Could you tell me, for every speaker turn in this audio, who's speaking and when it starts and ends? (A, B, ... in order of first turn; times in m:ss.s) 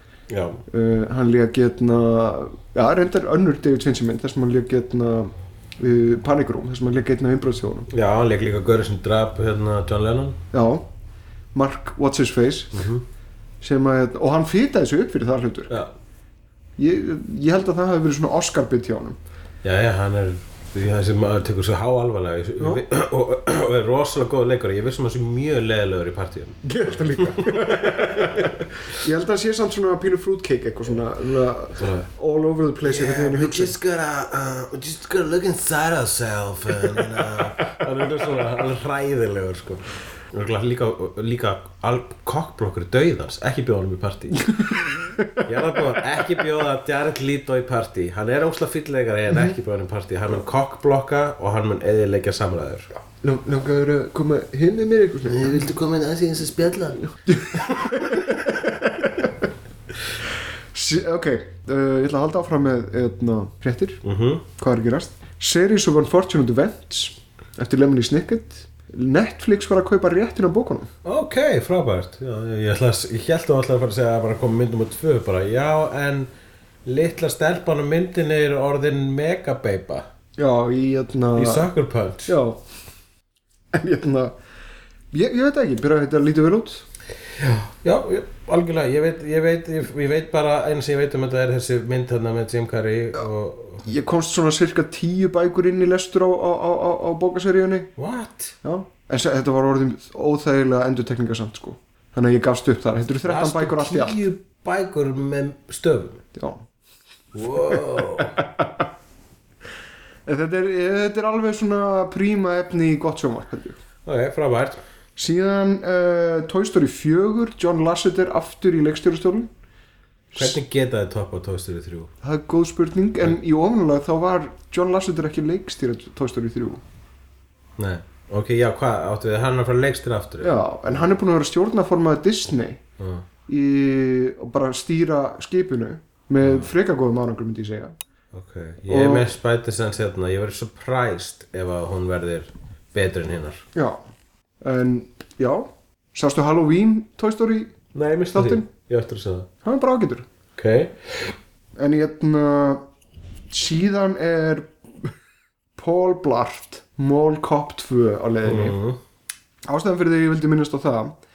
0:00.3-0:00.6 A
0:00.7-0:07.9 B
0:07.9-0:10.4 A
0:10.5-0:10.9 B
0:11.5-0:12.8 B
0:12.7-0:13.0 A
0:13.6-0:15.8 B
0:15.7-0:15.9 A
0:16.8-0:19.2 B
0:19.6-0:28.6 A
0:22.6-0:22.8 B
0:26.6-0:33.8 B
0:31.8-0:32.1 A
0:32.8-0:44.7 A
0:45.4-0:52.9 A
0:53.2-0:55.7 B
0:55.3-0:57.1 A
0:57.3-0:59.5 B
1:00.7-1:10.9 B
1:04.0-1:04.4 A
1:11.0-1:16.3 A
1:16.8-1:20.1 A
1:20.4-1:21.7 B
1:21.4-1:22.4 A
1:22.3-1:22.6 B
1:23.7-1:24.4 B
1:25.1-1:26.9 B
1:27.4-1:33.9 A
1:33.8-1:37.9 B
1:38.0-1:38.6 A
1:38.6-1:44.2 B
1:43.2-1:46.2 A
1:46.4-1:46.6 B
1:47.3-1:48.4 A
1:47.7-1:48.9 B
1:50.3-1:53.8 B
1:54.0-1:54.8 A
1:55.2-1:59.5 B
2:00.4-2:02.1 A
2:02.2-2:06.8 B
2:07.8-2:10.5 A
2:10.4-2:12.8 B
2:13.0-2:13.2 A
2:13.5-2:18.0 B
2:16.4-2:16.7 A
2:18.3-2:23.6 A
2:18.9-2:19.3 B
2:23.8-2:24.0 B
2:24.6-2:27.7 B
2:28.0-2:29.5 A
2:28.3-2:28.7 B
2:29.6-2:30.3 B
2:30.6-2:31.4 A
2:31.8-2:32.8 B
2:33.5-2:35.1 B
2:35.8-2:38.8 B
2:38.4-2:39.0 A
2:39.7-2:41.2 B